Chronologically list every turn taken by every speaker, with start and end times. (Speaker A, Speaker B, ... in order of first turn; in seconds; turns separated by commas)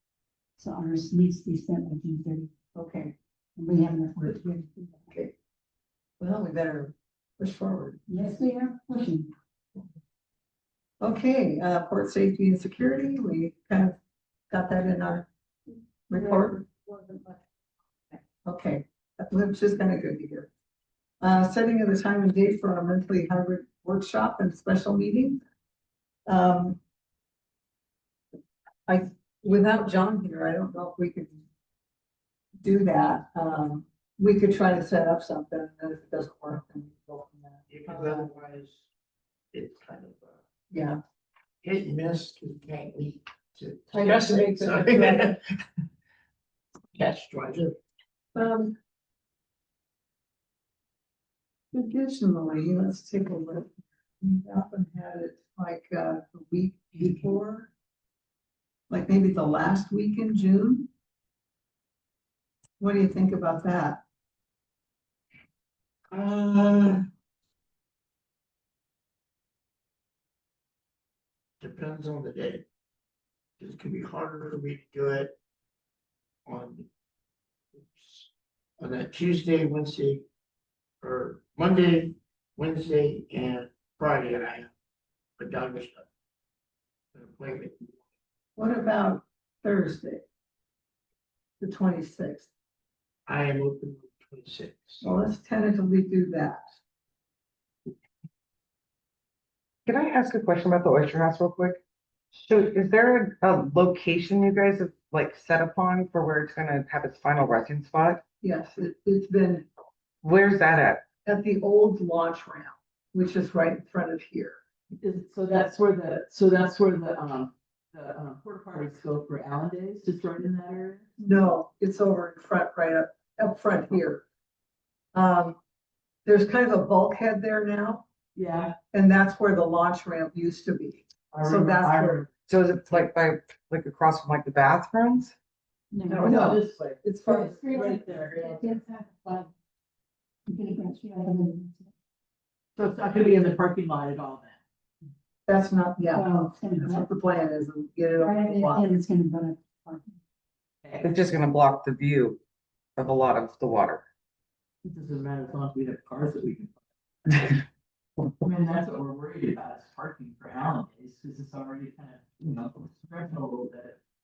Speaker A: 0.6-2.5, Speaker B: 2.7-3.1, Speaker A: 3.6-5.0, Speaker B: 4.2-5.3, Speaker B: 6.2-8.0, Speaker A: 8.1-9.3, Speaker B: 11.0-13.9, Speaker B: 14.5-15.3, Speaker B: 16.1-16.8, Speaker A: 16.2-17.3, Speaker B: 18.3-20.5, Speaker B: 21.2-25.4, Speaker B: 26.3-26.8, Speaker B: 28.9-31.4, Speaker B: 32.6-38.2, Speaker C: 37.7-38.8, Speaker C: 39.5-40.4, Speaker B: 40.7-41.0, Speaker C: 41.6-45.5, Speaker B: 43.9-45.3, Speaker C: 46.9-47.8, Speaker B: 48.3-48.8, Speaker B: 51.7-57.7, Speaker B: 58.9-60.9, Speaker B: 62.8-64.0, Speaker C: 66.1-67.0, Speaker C: 71.6-72.7, Speaker C: 73.6-75.3, Speaker C: 76.5-76.8, Speaker C: 77.7-80.2, Speaker C: 81.0-84.7, Speaker C: 85.4-86.1, Speaker C: 87.1-88.0, Speaker B: 88.5-90.2, Speaker B: 91.6-92.5, Speaker C: 93.3-95.0, Speaker B: 95.0-96.6, Speaker D: 99.8-101.8, Speaker D: 102.3-108.2, Speaker B: 108.4-109.7, Speaker D: 110.2-111.0, Speaker B: 111.2-114.6, Speaker E: 115.0-121.1, Speaker B: 121.2-124.2, Speaker B: 125.1-125.6, Speaker B: 126.2-128.0, Speaker E: 128.3-128.7, Speaker B: 128.9-132.2, Speaker E: 131.3-132.3, Speaker D: 132.5-135.3, Speaker A: 135.9-136.5, Speaker B: 136.1-137.9, Speaker E: 136.2-138.7, Speaker A: 137.3-139.5, Speaker A: 140.5-141.9, Speaker E: 142.8-144.6, Speaker B: 145.5-148.9, Speaker A: 146.1-147.1, Speaker A: 148.2-150.1, Speaker D: 151.0-152.4, Speaker D: 153.0-154.0, Speaker E: 154.8-157.6, Speaker E: 158.4-164.0